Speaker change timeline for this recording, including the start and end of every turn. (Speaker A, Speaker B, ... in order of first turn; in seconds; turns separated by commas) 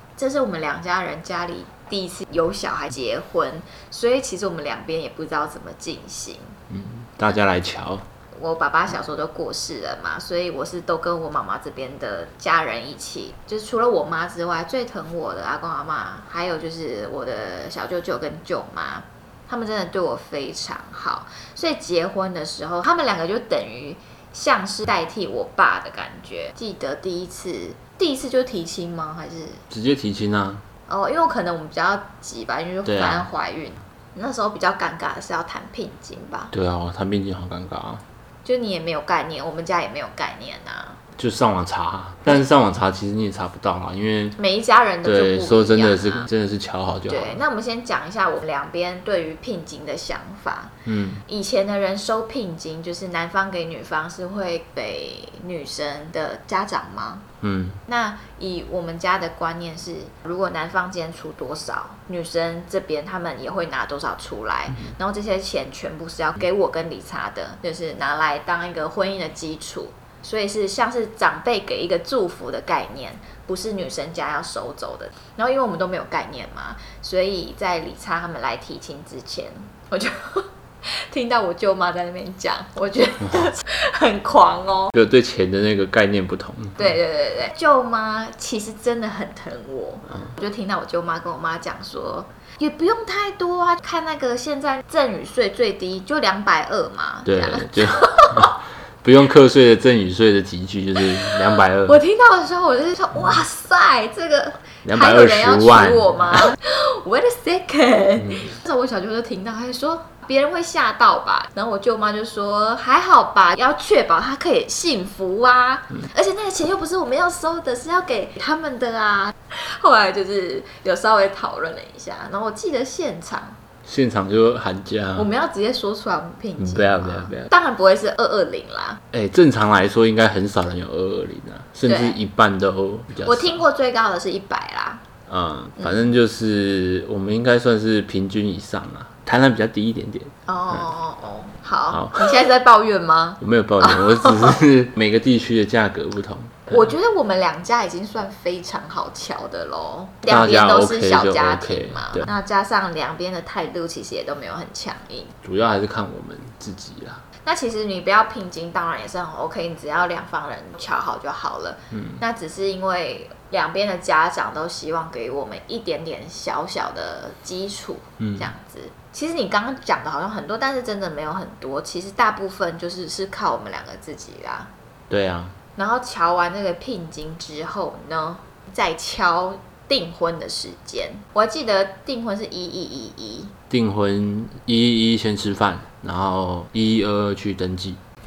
Speaker A: 0.2-6.6, Speaker B: 6.7-8.1, Speaker A: 8.3-29.6, Speaker B: 29.7-30.6, Speaker A: 30.9-36.5, Speaker B: 32.8-33.3, Speaker B: 36.5-38.0, Speaker A: 38.4-41.0, Speaker B: 41.2-44.4, Speaker A: 44.4-46.3, Speaker B: 45.0-47.4, Speaker A: 47.1-50.8, Speaker B: 50.9-51.2, Speaker A: 51.3-57.3, Speaker B: 57.4-57.8, Speaker A: 57.9-84.9, Speaker B: 84.9-87.0, Speaker A: 86.8-98.5, Speaker B: 97.2-102.0, Speaker A: 101.8-123.6, Speaker B: 104.8-106.5, Speaker B: 108.2-108.5, Speaker B: 123.8-125.3, Speaker A: 125.2-129.0, Speaker B: 126.6-127.5, Speaker B: 129.1-133.6, Speaker A: 131.9-132.2, Speaker A: 133.2-135.0, Speaker B: 135.3-140.8, Speaker A: 135.8-136.1, Speaker A: 140.4-144.6, Speaker B: 141.9-142.2, Speaker B: 143.4-146.9, Speaker A: 146.7-155.3, Speaker B: 150.3-152.3, Speaker B: 155.4-157.2, Speaker A: 157.4-174.7, Speaker B: 161.9-162.2, Speaker B: 168.2-168.5, Speaker B: 175.1-175.5, Speaker A: 175.8-183.5, Speaker B: 183.7-188.0